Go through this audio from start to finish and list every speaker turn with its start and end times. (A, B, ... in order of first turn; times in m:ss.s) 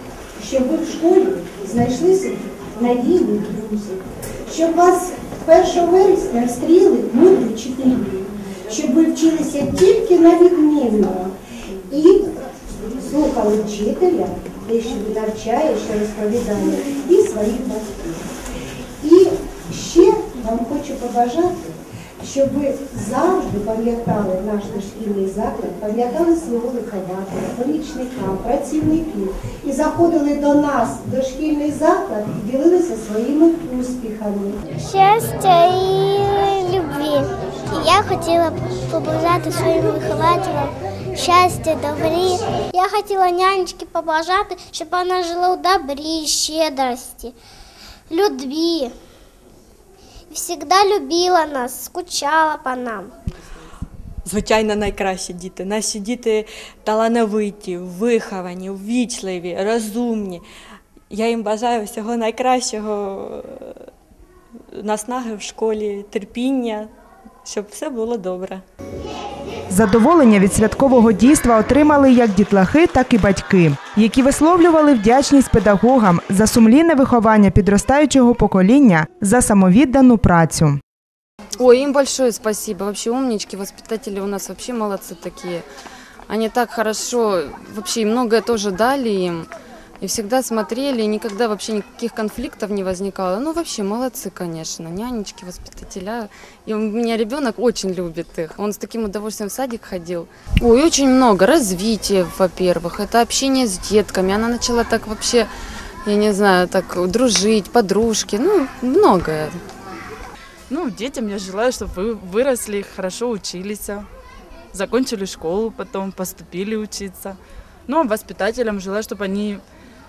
0:00.4-0:11.3 A
0:11.9-0:12.2 A
0:13.0-0:18.3 A
0:19.0-0:34.6 A
0:34.8-0:47.3 B
0:48.1-0:48.9 B
0:50.3-0:53.1 B
0:54.2-1:00.4 C
1:01.1-1:03.8 C
1:04.7-1:06.9 C
1:07.4-1:08.6 C
1:09.7-1:20.8 D
1:21.6-1:25.6 E
1:26.3-1:29.5 E
1:30.0-1:45.5 E
1:46.0-1:49.6 E
1:50.7-1:54.1 F
1:54.7-1:59.6 F